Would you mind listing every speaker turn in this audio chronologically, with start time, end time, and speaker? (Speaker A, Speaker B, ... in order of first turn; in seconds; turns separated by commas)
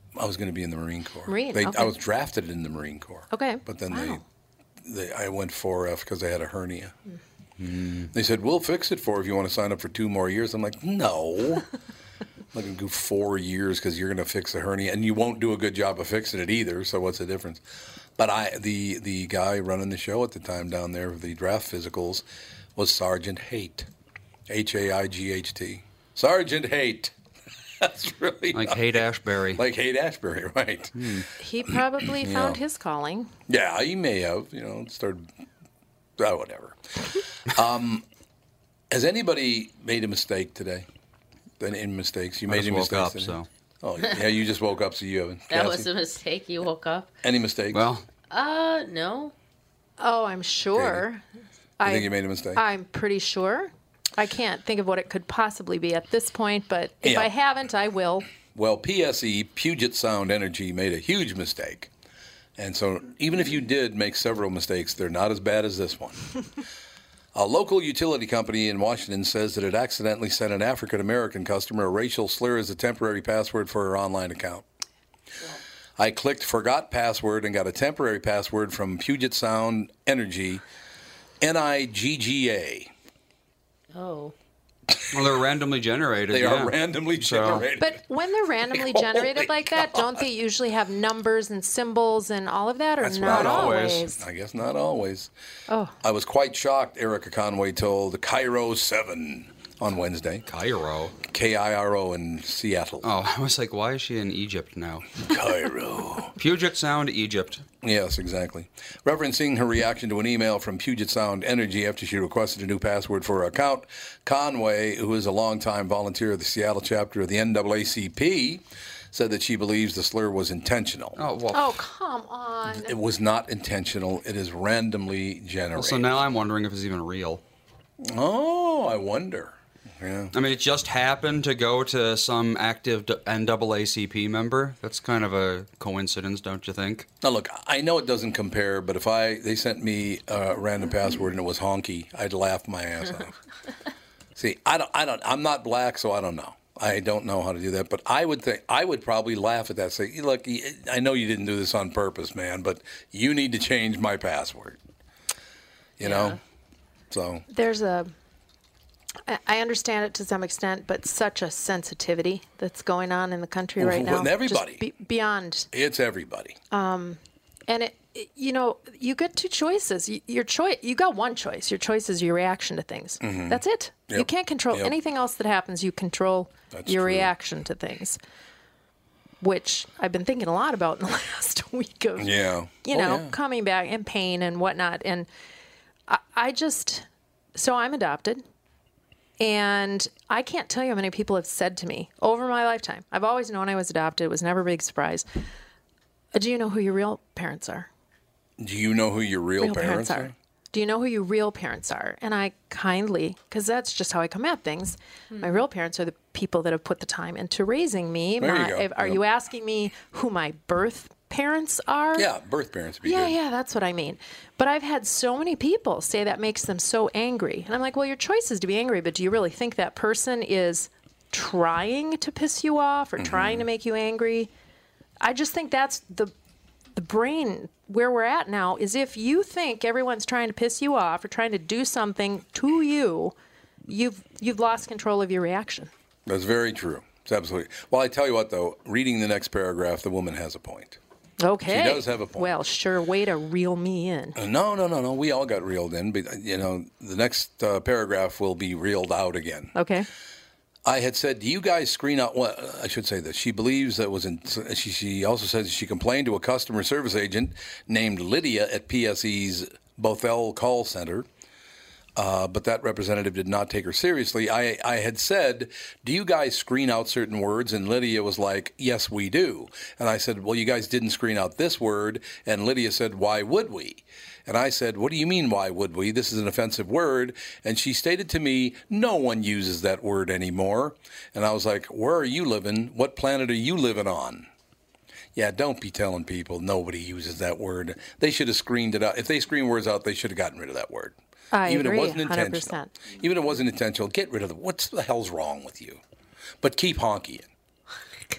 Speaker A: 0.2-4.2, Speaker B: 1.3-1.9, Speaker B: 3.3-4.2, Speaker A: 4.8-7.0, Speaker C: 7.6-8.1, Speaker A: 8.1-11.7, Speaker A: 12.5-17.6, Speaker A: 18.2-22.2, Speaker A: 22.8-23.9, Speaker A: 24.5-27.1, Speaker A: 27.8-29.0, Speaker C: 28.5-29.6, Speaker A: 29.6-31.2, Speaker C: 31.0-31.3, Speaker B: 31.4-33.3, Speaker A: 32.2-32.6, Speaker A: 33.5-35.3, Speaker A: 36.2-38.0, Speaker A: 38.9-40.9, Speaker A: 41.6-45.9, Speaker C: 42.5-43.5, Speaker D: 45.5-47.1, Speaker A: 47.2-47.9, Speaker C: 47.7-48.0, Speaker D: 48.3-49.3, Speaker B: 50.0-51.2, Speaker A: 50.8-51.0, Speaker B: 51.8-58.3, Speaker A: 51.8-52.6, Speaker A: 57.0-57.3, Speaker A: 58.5-61.9, Speaker A: 62.6-66.4, Speaker A: 67.3-74.7, Speaker A: 76.0-80.6, Speaker A: 81.4-82.9, Speaker D: 83.9-84.3, Speaker C: 85.1-87.7, Speaker A: 86.3-88.0, Speaker B: 87.8-94.2, Speaker A: 88.7-90.1, Speaker A: 93.0-95.3, Speaker C: 93.2-94.1, Speaker B: 95.7-96.0, Speaker A: 96.0-100.5, Speaker C: 100.5-101.2, Speaker A: 101.2-103.1, Speaker C: 103.0-105.2, Speaker A: 105.3-106.3, Speaker C: 106.4-107.6, Speaker A: 107.8-121.2, Speaker C: 121.2-121.7, Speaker B: 121.5-122.9, Speaker A: 122.7-126.2, Speaker C: 125.8-127.4, Speaker A: 128.0-130.3, Speaker C: 130.3-137.1, Speaker A: 137.2-143.4, Speaker A: 144.4-154.8, Speaker A: 156.0-156.4, Speaker D: 156.0-156.4, Speaker A: 157.1-157.4, Speaker B: 157.5-158.1, Speaker B: 159.3-165.7, Speaker A: 163.8-164.8, Speaker A: 165.7-166.6, Speaker B: 166.7-178.2, Speaker A: 173.2-174.9, Speaker A: 176.7-177.3, Speaker B: 179.4-182.3, Speaker A: 182.2-183.3, Speaker B: 182.8-185.3, Speaker B: 186.1-188.4, Speaker B: 189.4-195.2, Speaker B: 196.3-197.9, Speaker A: 198.6-200.3, Speaker B: 199.6-212.3, Speaker D: 205.3-205.6, Speaker A: 208.4-209.2, Speaker A: 212.2-213.3, Speaker B: 213.0-224.5, Speaker A: 223.2-223.7, Speaker B: 225.2-226.3, Speaker B: 226.9-233.3, Speaker B: 233.9-235.9, Speaker A: 236.3-241.0, Speaker B: 241.4-244.4, Speaker A: 241.7-242.6, Speaker A: 244.4-249.7, Speaker B: 249.8-250.1, Speaker A: 250.8-261.3, Speaker A: 262.2-284.5, Speaker A: 285.4-296.0, Speaker B: 291.5-292.9, Speaker A: 296.6-297.5